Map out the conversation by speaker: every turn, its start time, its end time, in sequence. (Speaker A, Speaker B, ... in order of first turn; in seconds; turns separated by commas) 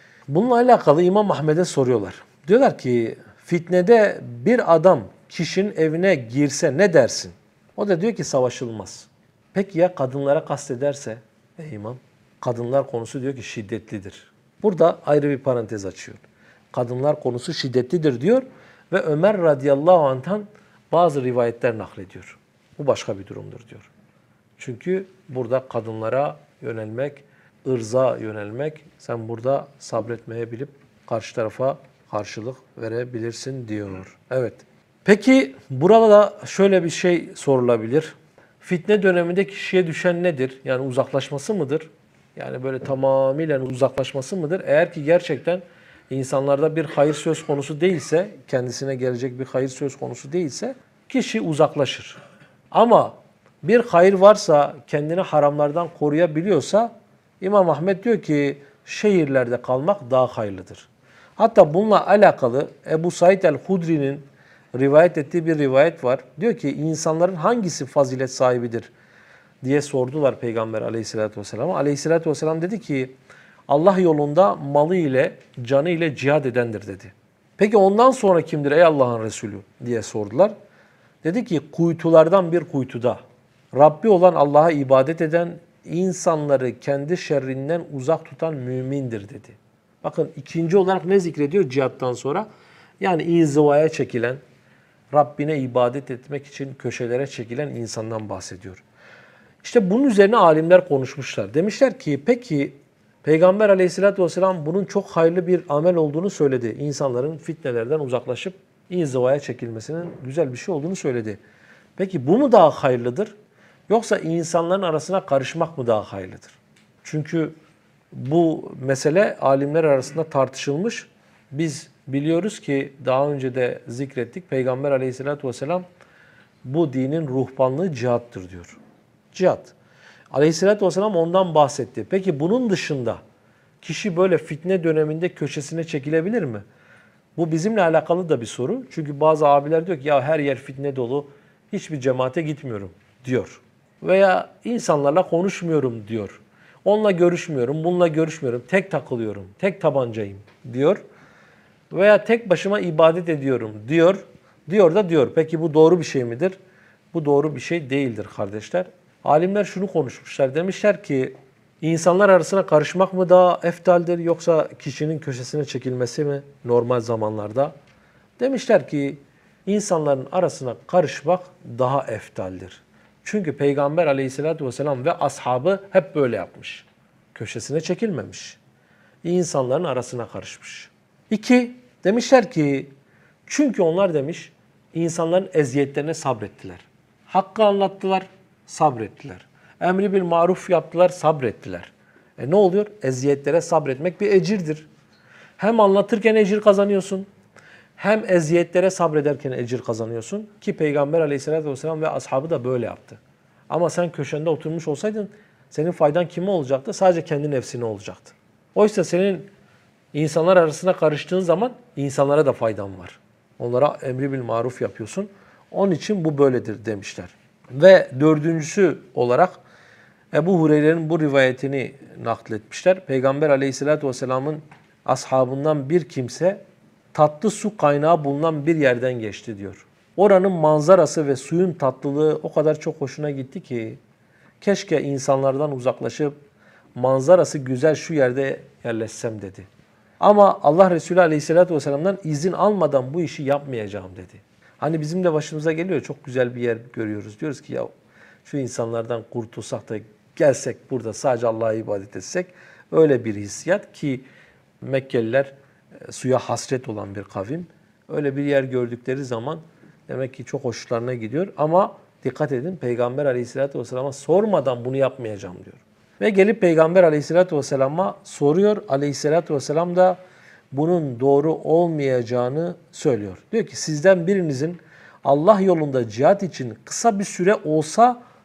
Speaker A: 0.3-23.9, Speaker A: 24.6-52.2, Speaker A: 52.7-68.9, Speaker A: 69.6-73.1, Speaker A: 73.7-80.5, Speaker A: 81.2-83.2, Speaker A: 83.7-92.5, Speaker A: 93.0-94.4, Speaker A: 95.1-98.8, Speaker A: 99.6-111.4, Speaker A: 112.0-113.3, Speaker A: 113.9-117.6, Speaker A: 118.1-125.8, Speaker A: 126.6-128.8, Speaker A: 129.3-129.7, Speaker A: 130.3-133.2, Speaker A: 133.8-136.6, Speaker A: 137.3-151.0, Speaker A: 151.9-156.6, Speaker A: 157.1-167.7, Speaker A: 168.4-178.6, Speaker A: 179.2-182.9, Speaker A: 183.5-194.9, Speaker A: 195.6-197.3, Speaker A: 198.0-209.5, Speaker A: 210.1-219.6, Speaker A: 220.3-226.6, Speaker A: 227.1-234.0, Speaker A: 234.6-236.4, Speaker A: 236.9-239.7, Speaker A: 240.2-247.9, Speaker A: 248.4-254.2, Speaker A: 254.8-255.5, Speaker A: 256.1-270.2, Speaker A: 270.7-278.2